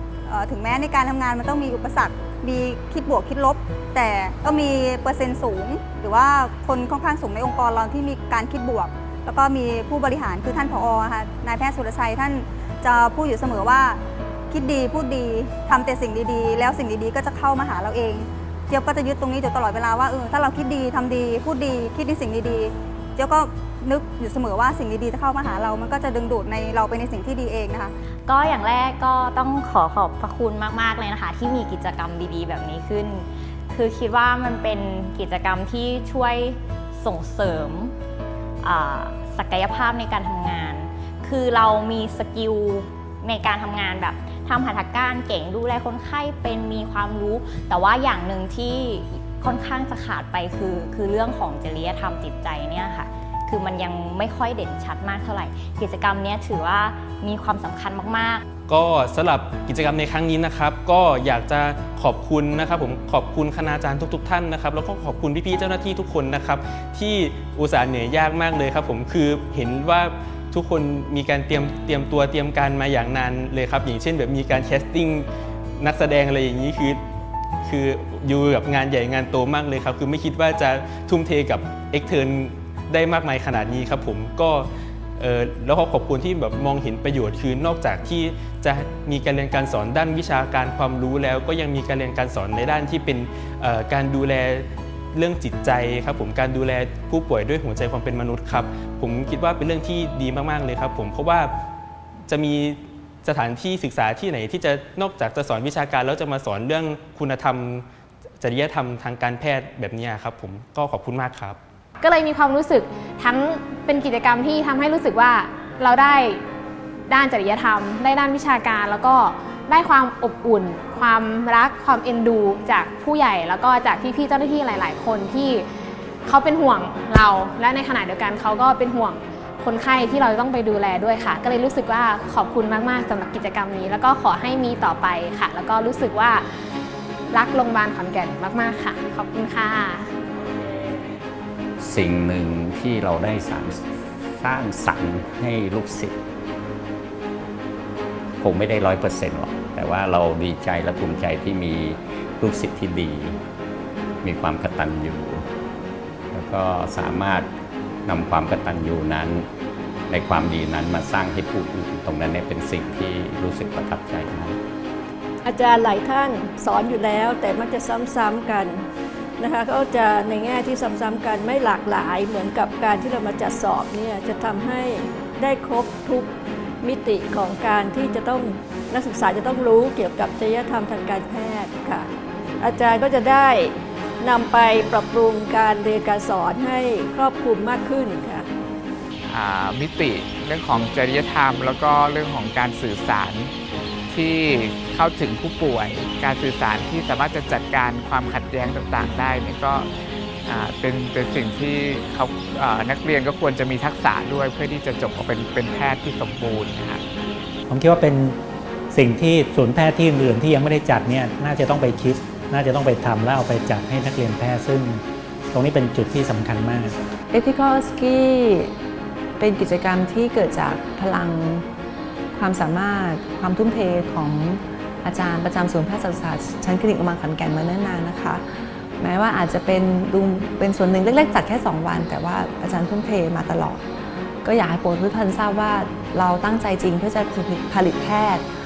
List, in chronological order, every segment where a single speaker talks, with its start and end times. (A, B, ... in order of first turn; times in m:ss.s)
0:00.3-0:27.9 A
0:28.3-0:37.9 B
0:38.6-0:58.4 B
0:58.7-1:15.3 C
1:15.8-1:17.0 C
1:17.6-1:24.7 C
1:25.2-1:41.5 C
1:42.3-1:47.8 C
1:48.4-1:51.6 C
1:52.0-1:56.4 D
1:57.1-2:05.6 D
2:06.2-2:16.4 D
2:17.3-2:20.1 D
2:21.8-2:23.8 E
2:24.4-2:26.1 E
2:28.4-2:33.3 E
2:34.2-2:35.4 E
2:36.3-2:37.2 E
2:38.1-2:39.4 E
2:40.1-2:44.5 E
2:45.4-2:48.8 F
2:49.4-2:56.3 F
2:56.8-3:02.1 F
3:02.6-3:08.5 F
3:09.3-3:13.5 G
3:14.1-3:19.9 G
3:20.5-3:27.0 G
3:27.7-3:28.4 H
3:28.9-3:37.0 H
3:37.3-3:38.7 I
3:39.4-3:41.6 I
3:42.3-3:48.4 I
3:49.0-3:53.8 I
3:54.4-3:58.4 I